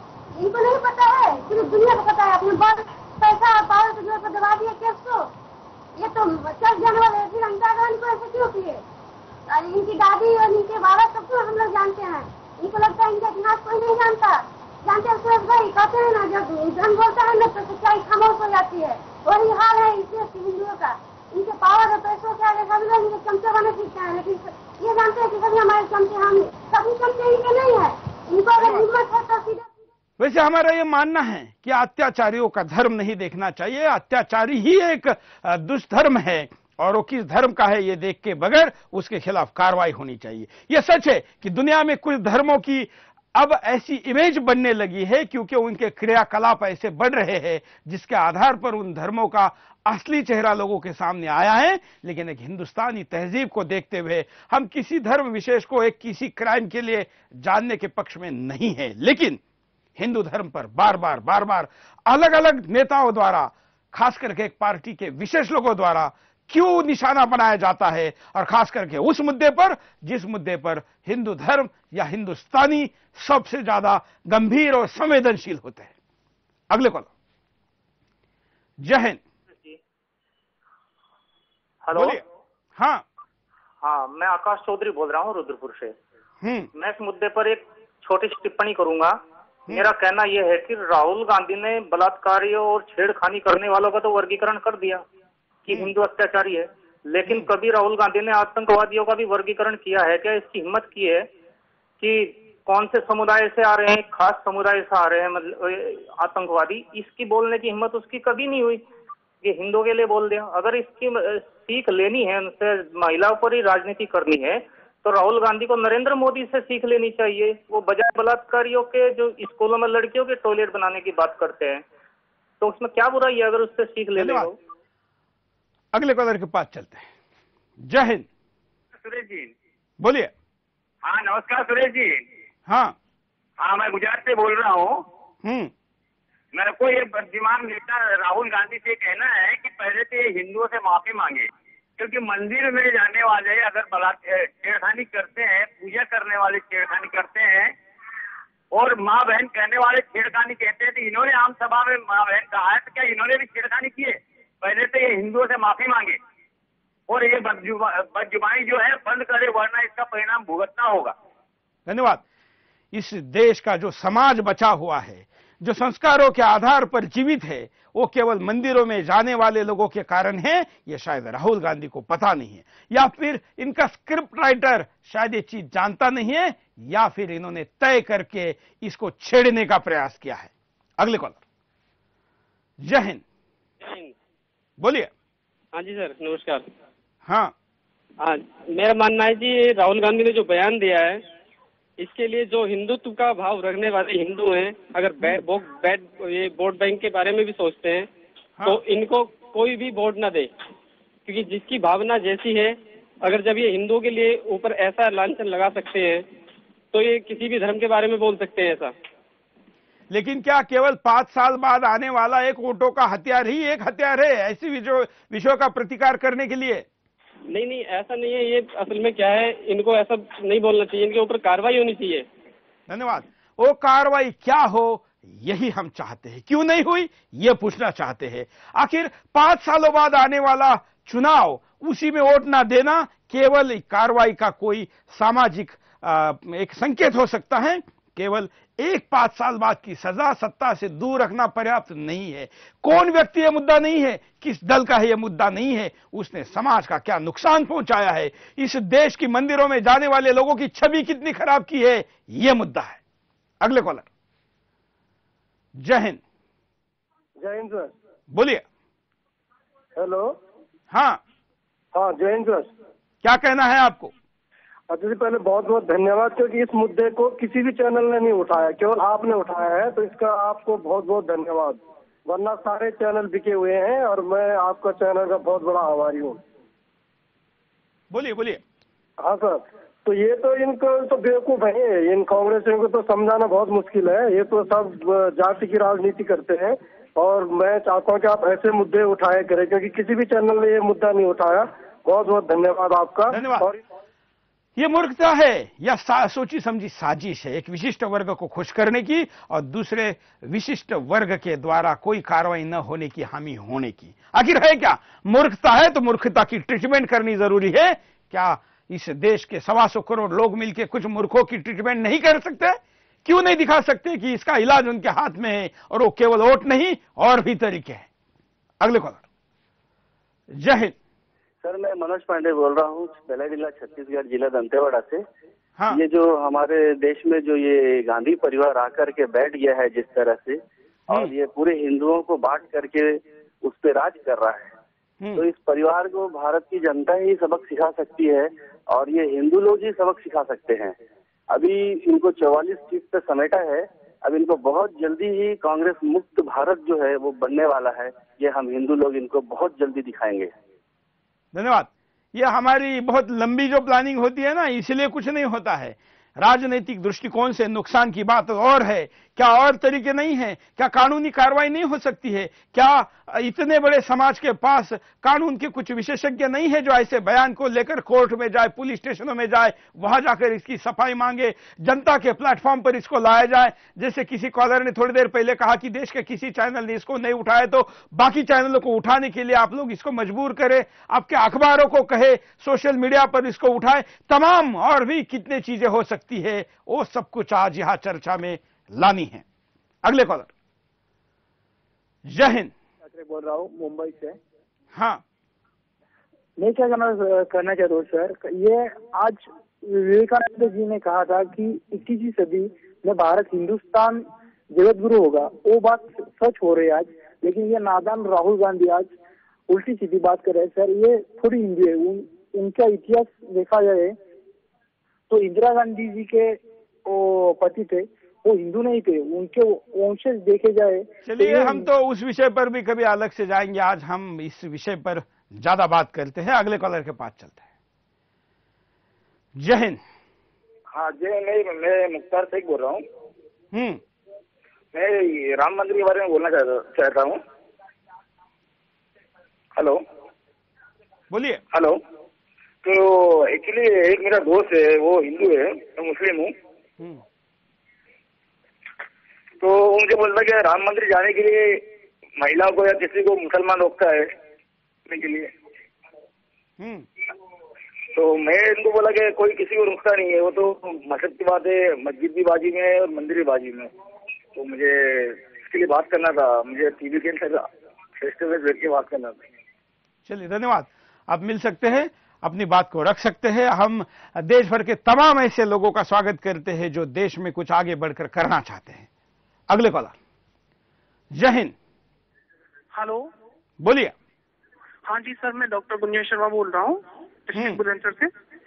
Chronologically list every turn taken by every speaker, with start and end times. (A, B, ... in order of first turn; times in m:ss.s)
0:00.4-0:05.3 A
0:06.0-0:08.8 A
0:09.5-0:29.7 A
0:28.6-0:28.9 B
0:30.2-0:59.4 B
1:00.0-1:15.9 B
1:16.7-1:17.1 B
1:18.8-1:19.2 B
1:21.8-1:22.2 C
1:21.9-1:22.2 B
1:22.8-1:23.0 B
1:23.8-1:25.9 C
1:26.4-1:26.7 B
1:26.8-1:29.2 C
1:29.7-1:35.0 C
1:35.6-1:41.3 C
1:42.0-1:48.8 C
1:49.4-2:01.8 C
2:02.6-2:04.6 C
2:04.1-2:04.5 B
2:05.9-2:07.1 B
2:07.8-2:08.2 B
2:09.0-2:09.5 D
2:10.0-2:10.3 B
2:11.0-2:12.2 D
2:12.7-2:13.0 B
2:13.6-2:15.0 D
2:15.4-2:15.7 B
2:16.5-2:21.5 D
2:22.0-2:27.7 D
2:28.7-2:36.2 D
2:37.1-2:41.1 D
2:41.9-2:42.2 B
2:42.9-3:01.4 B
3:02.8-3:03.2 B
3:03.8-3:04.1 E
3:04.8-3:05.1 B
3:05.7-3:06.6 E
3:07.2-3:07.5 B
3:08.2-3:11.2 E
3:12.0-3:18.1 E
3:18.6-3:20.5 E
3:21.2-3:26.3 E
3:26.9-3:28.9 E
3:30.1-3:36.8 B
3:37.5-3:42.3 E
3:42.9-4:13.0 B
4:13.6-4:14.1 B
4:15.8-4:16.2 B
4:17.4-4:17.9 F
4:18.3-4:18.6 B
4:20.0-4:20.4 F
4:20.9-4:21.2 B
4:21.9-4:22.7 F
4:23.2-4:24.1 B
4:24.9-4:36.4 F
4:38.1-4:38.6 B
4:39.2-4:53.8 F
4:53.3-4:53.7 B
4:54.8-5:18.1 B
5:18.8-5:19.2 B
5:20.5-5:20.9 B
5:21.6-5:25.2 G
5:25.9-5:30.6 G
5:31.1-5:34.7 G
5:35.4-5:40.9 G
5:41.5-5:50.5 G
5:51.5-6:29.4 B
6:30.0-6:30.5 B
6:32.3-6:32.7 B
6:33.0-6:34.4 H
6:34.9-6:35.2 B
6:36.6-6:49.1 H
6:49.7-6:54.2 H
6:55.3-7:01.9 H
7:01.2-7:07.6 B
7:09.6-7:10.0 B
7:10.9-7:13.0 I
7:13.7-7:14.0 B
7:14.9-7:17.4 I
7:21.3-7:21.6 B
7:21.7-7:22.0 I
7:22.8-7:26.5 I
7:29.6-7:31.8 I
7:32.4-7:34.3 I
7:35.1-7:35.5 I
7:36.8-7:37.1 B
7:38.1-7:43.9 I
7:44.6-7:47.6 I
7:48.2-7:49.4 I
7:50.2-7:59.1 B
7:59.7-8:00.1 B
8:01.3-8:01.7 B
8:02.9-8:03.2 J
8:03.8-8:04.1 B
8:05.1-8:08.3 J
8:07.5-8:07.8 B